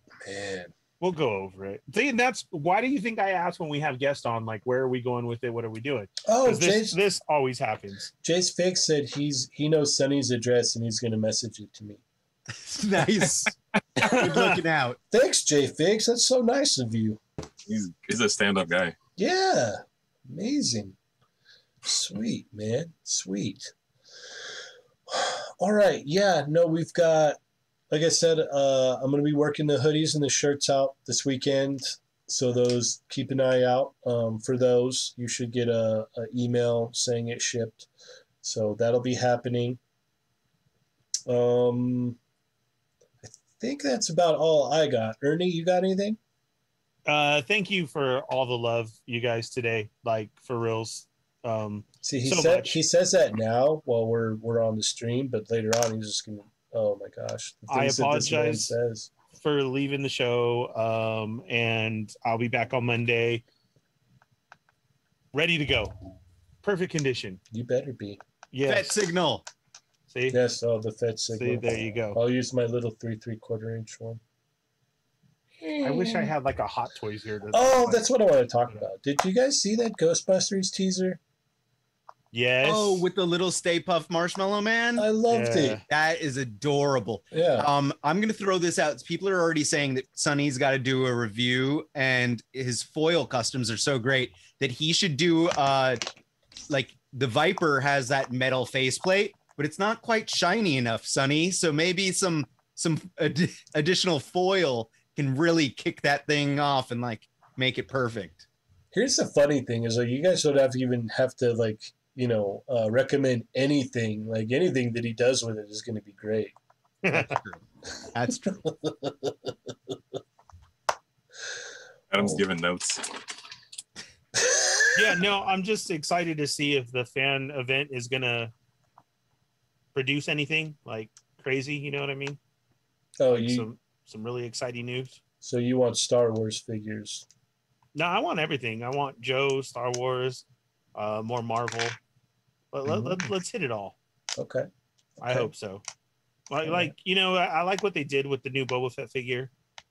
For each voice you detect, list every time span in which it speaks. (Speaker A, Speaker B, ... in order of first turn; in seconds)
Speaker A: 0.2-0.7, 6.3-7.0, 8.2-12.0, 15.1-17.2, 19.2-21.0, 21.9-23.7, 25.1-27.4, 27.9-37.9, 38.4-39.8, 41.3-42.2, 43.2-46.2, 52.0-59.1, 67.5-68.2, 70.3-74.2, 75.6-76.3, 77.5-81.2, 85.0-85.8, 87.3-87.7, 108.9-116.6, 118.5-119.5, 124.4-124.9, 133.2-133.7, 135.4-137.2, 142.9-143.3, 144.4-144.7, 145.2-145.5, 146.7-146.9
Speaker B: 1.0-8.1, 14.0-14.6, 47.1-52.8, 57.7-58.8, 59.4-63.4, 65.3-66.0, 66.6-67.4, 68.5-69.0, 70.1-70.4, 71.3-72.2, 75.8-78.1, 82.3-83.1, 85.3-85.8, 117.0-117.3, 125.0-128.5, 129.9-132.4, 133.3-135.2, 137.9-142.0, 142.7-144.0, 145.2-145.8, 146.5-149.5
Speaker C: 12.5-15.0, 68.7-69.4, 82.6-85.1, 85.8-96.0, 96.7-108.5, 117.1-118.6
Speaker D: 17.7-18.9, 122.1-123.0